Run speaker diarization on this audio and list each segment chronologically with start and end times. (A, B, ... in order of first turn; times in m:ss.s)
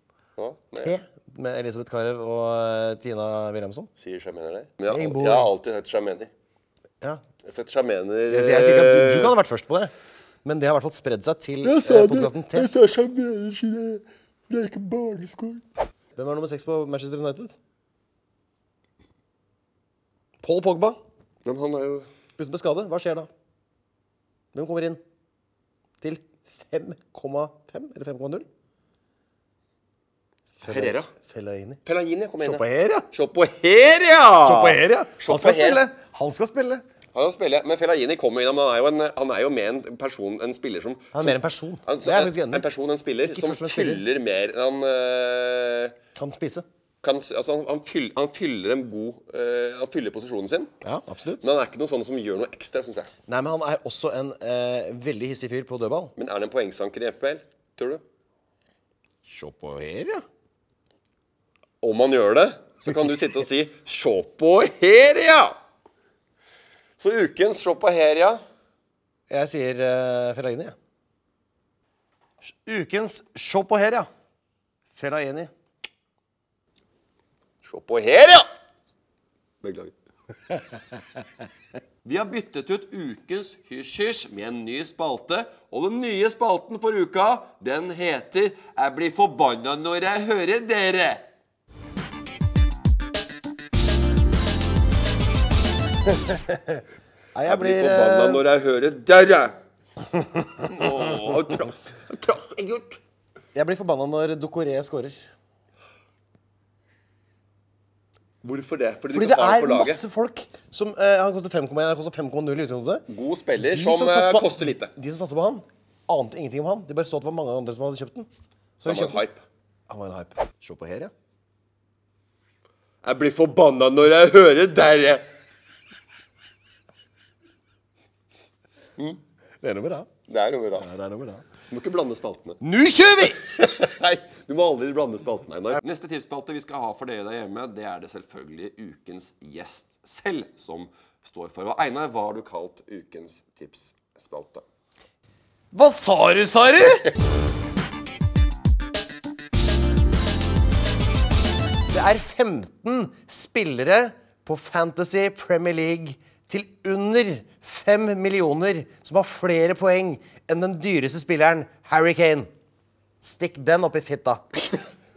0:00.4-0:00.9 A
0:00.8-0:03.9 B
0:04.0-0:06.3 A
0:04.9-0:05.5 B
0:07.4-0:09.4 A
0:08.3-0:09.9 B
0:10.4-0:12.7 B
0:11.6-0:15.6 A
0:16.2-0:17.6 B
0:20.4-0:21.0 B
0:21.4-0:22.1 A
0:22.4-0:23.3 B
0:24.5-0:25.0 B
0:26.0-0:28.5 B
0:30.6-0:31.8 B
0:30.6-0:31.1 A
0:31.8-0:35.8 A
0:32.4-0:33.1 B
0:34.4-0:36.8 B
0:37.1-0:46.0 A
0:41.1-0:42.6 B
0:43.2-0:44.0 B
0:46.2-0:46.6 B
0:47.0-0:50.7 A
0:50.8-0:51.5 B
0:51.4-0:53.1 A
0:53.3-0:56.1 B
0:56.2-0:58.0 A
0:59.3-1:00.2 B
1:01.8-1:05.6 A
1:07.0-1:08.4 A
1:09.3-1:10.8 B
1:12.4-1:14.1 B
1:14.9-1:15.5 B
1:17.6-1:18.5 A
1:19.6-1:19.9 A
1:22.0-1:31.2 A
1:36.1-1:36.8 B
1:37.3-1:38.4 B
1:37.5-1:39.6 A
1:40.5-1:43.0 A
1:43.6-1:45.2 B
1:48.4-1:50.0 A
1:49.1-1:53.0 B
1:53.1-1:54.9 A
1:53.6-1:58.3 B
1:58.8-1:59.2 B
1:58.8-1:59.4 A
1:59.9-2:01.1 B
2:03.0-2:05.2 A
2:09.6-2:10.1 B
2:10.3-2:10.9 A
2:10.8-2:11.5 B
2:11.7-2:12.6 A
2:12.6-2:13.4 B
2:13.2-2:24.6 A
2:25.7-2:27.1 B
2:31.9-2:42.5 B
2:43.2-2:44.6 B